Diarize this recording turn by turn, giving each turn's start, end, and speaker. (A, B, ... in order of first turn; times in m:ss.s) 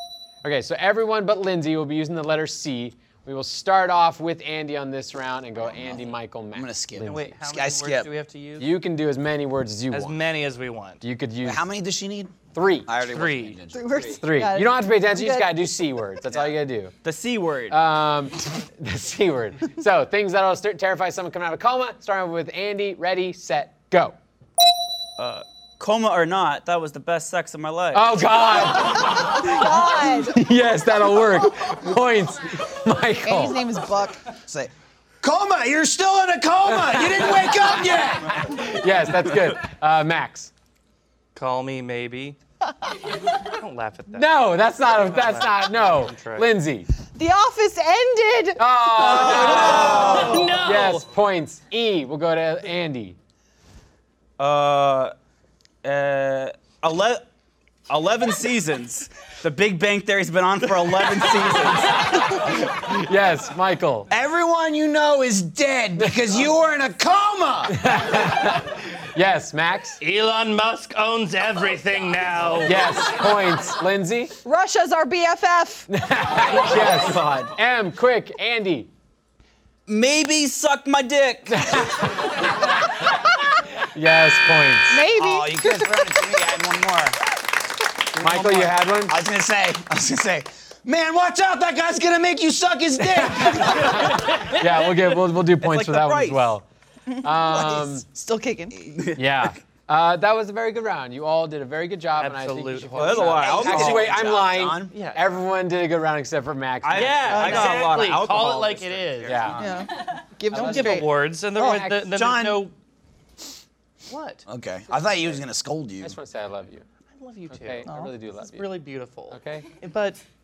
0:00.4-0:07.3 A
0:05.7-0:08.1 B
0:07.0-0:08.7 C
0:08.6-0:10.2 A
0:09.9-0:11.0 C
0:11.0-0:11.6 A
0:11.4-0:14.2 B
0:12.5-0:12.9 A
0:13.0-0:13.6 C
0:13.7-0:15.8 D
0:14.1-0:16.9 A
0:17.0-0:17.8 E
0:17.7-0:24.2 A
0:25.2-0:28.3 E
0:27.9-0:29.6 A
0:29.0-0:30.4 D
0:30.2-0:33.7 A
0:33.2-0:34.2 D
0:35.2-0:38.5 B
0:38.3-0:40.5 A
0:41.4-0:42.4 C
0:43.3-0:46.5 C
0:44.1-0:46.9 A
0:47.2-0:48.6 D
0:48.6-0:53.2 A
0:49.0-0:50.6 E
0:49.2-0:51.1 C
0:49.7-0:50.4 B
0:54.4-0:55.1 E
0:55.8-0:57.2 E
0:57.9-1:02.6 E
1:02.5-1:04.1 A
1:04.1-1:07.8 B
1:07.7-1:10.0 A
1:10.0-1:12.8 C
1:12.6-1:14.3 A
1:14.4-1:15.9 D
1:15.9-1:18.9 A
1:16.6-1:17.5 E
1:19.9-1:21.8 E
1:21.5-1:22.3 A
1:23.9-1:25.0 A
1:24.9-1:26.2 D
1:25.1-1:27.2 B
1:28.2-1:34.2 B
1:28.2-1:29.2 A
1:33.0-1:36.6 A
1:35.6-1:36.5 E
1:37.1-1:39.1 D
1:37.2-1:38.0 A
1:39.2-1:47.6 A
1:42.2-1:43.6 C
1:43.0-1:44.1 E
1:43.4-1:44.9 B
1:44.9-1:45.3 C
1:46.8-1:49.7 E
1:46.9-1:49.5 C
1:47.3-1:47.8 D
1:49.2-1:49.7 A
1:49.6-1:51.1 D
1:50.5-1:52.7 C
1:50.5-1:52.0 A
1:52.0-1:52.7 B
1:54.1-1:54.5 C
1:54.5-1:56.2 B
1:56.0-1:56.8 A
1:57.1-2:00.2 C
1:57.5-1:58.8 A
1:57.9-1:58.1 D
1:59.3-1:59.7 A